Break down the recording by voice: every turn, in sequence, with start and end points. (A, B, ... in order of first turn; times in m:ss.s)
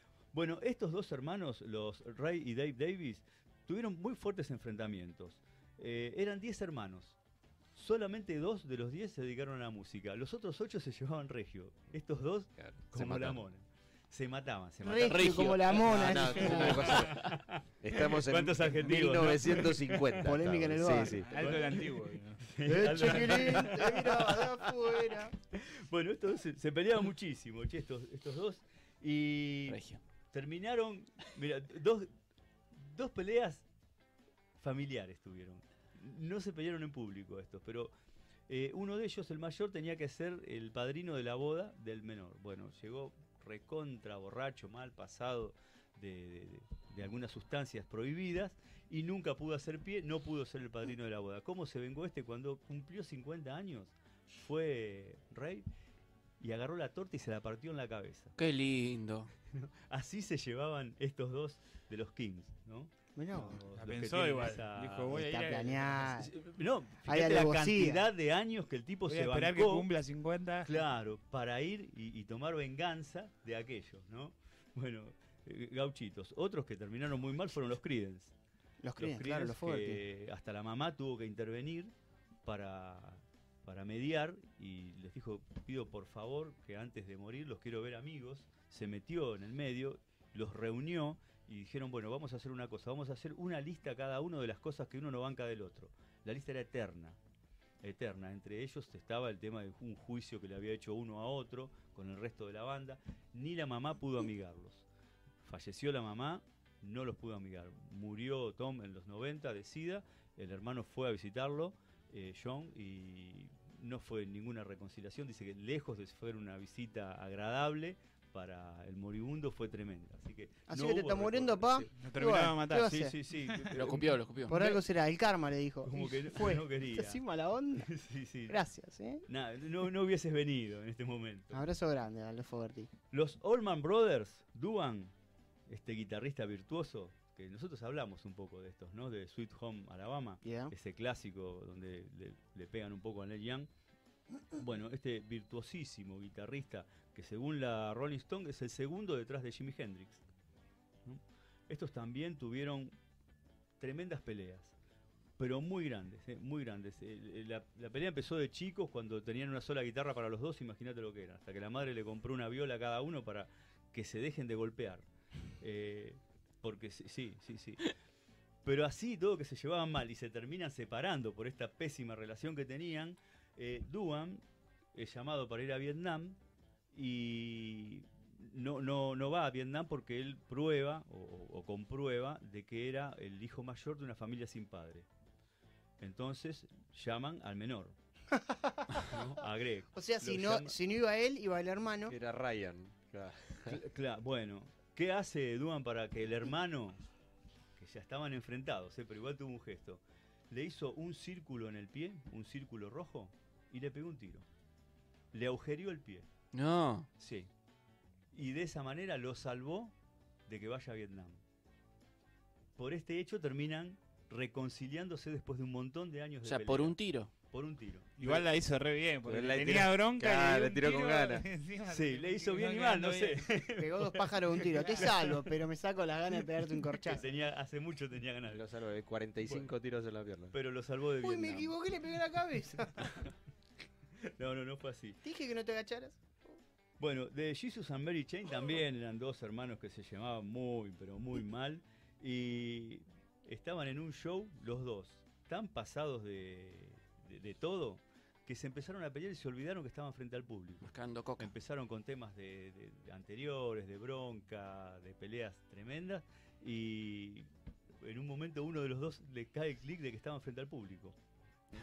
0:00.3-0:07.2 A
0:07.7-0:15.7 A
0:12.6-0:13.4 B
0:14.8-0:17.0 C
0:15.1-0:17.1 D
0:15.8-0:17.2 B
0:16.6-0:20.0 A
0:17.8-0:21.3 B
0:20.2-0:21.3 C
0:20.9-0:22.5 E
0:21.2-0:29.8 A
0:22.6-0:25.3 C
0:29.7-0:30.0 D
0:30.3-0:32.1 A
0:32.7-0:33.6 A
0:34.6-0:37.9 A
0:38.5-0:55.6 A
0:56.4-0:58.3 A
0:58.4-0:59.3 D
0:59.5-1:05.2 A
1:03.2-1:03.6 C
1:03.7-1:06.1 E
1:05.1-1:06.3 C
1:06.2-1:09.9 A
1:07.0-1:08.1 C
1:09.1-1:10.8 E
1:10.6-1:18.3 A
1:18.8-1:20.0 C
1:19.0-1:21.9 A
1:22.4-1:37.2 A
1:37.8-1:44.9 A
1:45.4-2:01.9 A
2:00.7-2:03.2 C
2:02.0-2:03.8 E
2:02.8-2:04.8 A
2:03.7-2:04.6 D
2:04.5-2:09.2 C
2:05.8-2:07.2 A
2:07.8-2:08.6 A
2:09.3-2:11.6 A
2:11.5-2:12.9 C
2:13.1-2:15.1 A
2:15.7-2:23.7 A
2:20.4-2:20.7 C
2:24.6-2:30.2 A
2:31.0-2:33.0 A
2:33.8-2:34.7 A
2:35.4-2:45.0 A
2:45.6-2:47.9 A
2:48.6-2:54.4 A
2:54.9-2:56.4 A
2:56.9-3:05.0 A
3:06.0-3:07.9 A
3:08.5-3:09.3 C
3:09.2-3:10.8 A
3:09.9-3:12.2 C
3:12.1-3:13.8 B
3:13.7-3:17.0 A
3:17.8-3:24.4 A
3:25.3-3:26.3 A
3:26.5-3:27.1 D
3:27.2-3:27.5 A
3:28.3-3:29.9 A
3:30.5-3:31.4 A
3:32.8-3:37.0 A
3:36.4-3:37.3 D
3:37.5-3:38.4 A
3:38.2-3:43.5 E
3:39.2-3:41.4 B
3:41.9-3:45.4 A
3:43.8-3:47.2 C
3:46.8-3:48.6 A
3:48.5-3:50.5 B
3:49.4-3:49.8 A
3:50.5-3:51.7 A
3:51.2-3:53.3 C
3:54.2-3:55.2 A
3:55.2-3:56.2 C
3:57.0-4:17.5 A
4:10.8-4:11.5 D
4:18.0-4:21.1 A